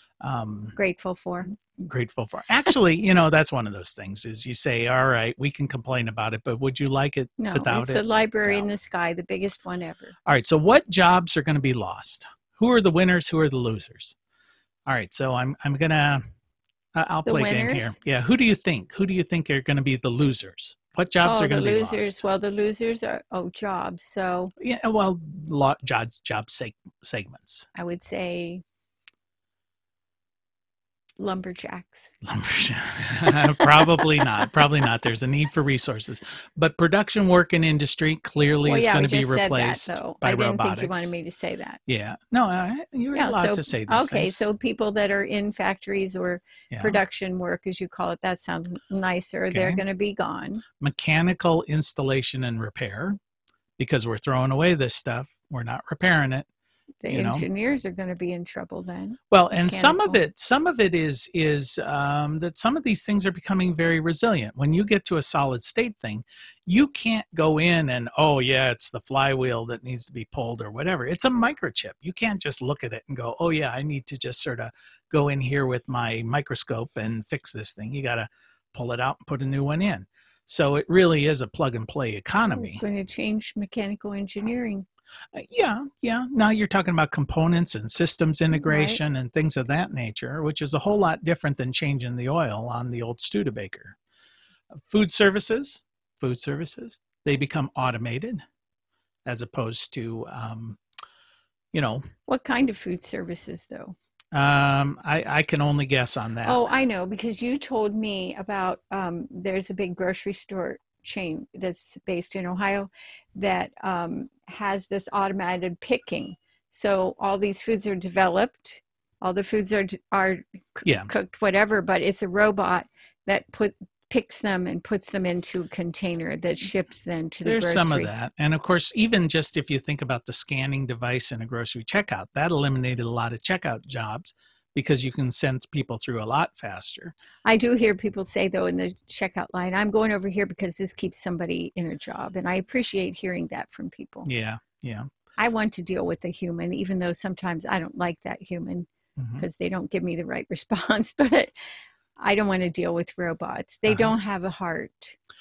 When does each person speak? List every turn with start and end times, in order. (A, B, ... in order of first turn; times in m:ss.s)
0:00.2-0:00.8 A
0:00.8-0:01.5 B
0:01.7-0:08.7 A
0:07.4-0:10.1 B
0:10.2-0:14.1 A
0:14.9-0:16.2 A
0:16.9-0:22.2 A
0:17.2-0:18.0 B
0:21.2-0:24.5 B
0:24.6-0:27.7 A
0:27.7-0:28.6 B
0:31.2-0:32.1 B
0:32.2-0:41.1 A
0:38.6-0:41.8 B
0:41.9-0:44.4 A
0:43.1-0:50.6 B
0:46.7-0:47.0 A
0:49.5-0:49.8 A
0:50.8-0:53.2 A
0:53.8-0:56.5 A
0:57.0-1:00.2 B
0:57.1-0:57.4 A
0:59.3-1:22.8 A
1:22.5-1:24.8 B
1:25.3-1:34.0 A
1:28.5-1:29.0 B
1:34.7-1:38.4 A
1:39.2-1:40.8 A
1:41.7-1:42.0 A
1:42.3-1:44.0 B
1:44.3-1:46.6 A
1:46.4-2:08.1 B
2:00.8-2:01.1 A
2:07.4-2:17.1 A
2:17.4-2:24.3 B
2:24.2-2:25.1 A
2:25.4-2:31.5 B
2:29.2-2:29.4 A
2:32.2-2:35.2 B
2:33.8-2:34.1 A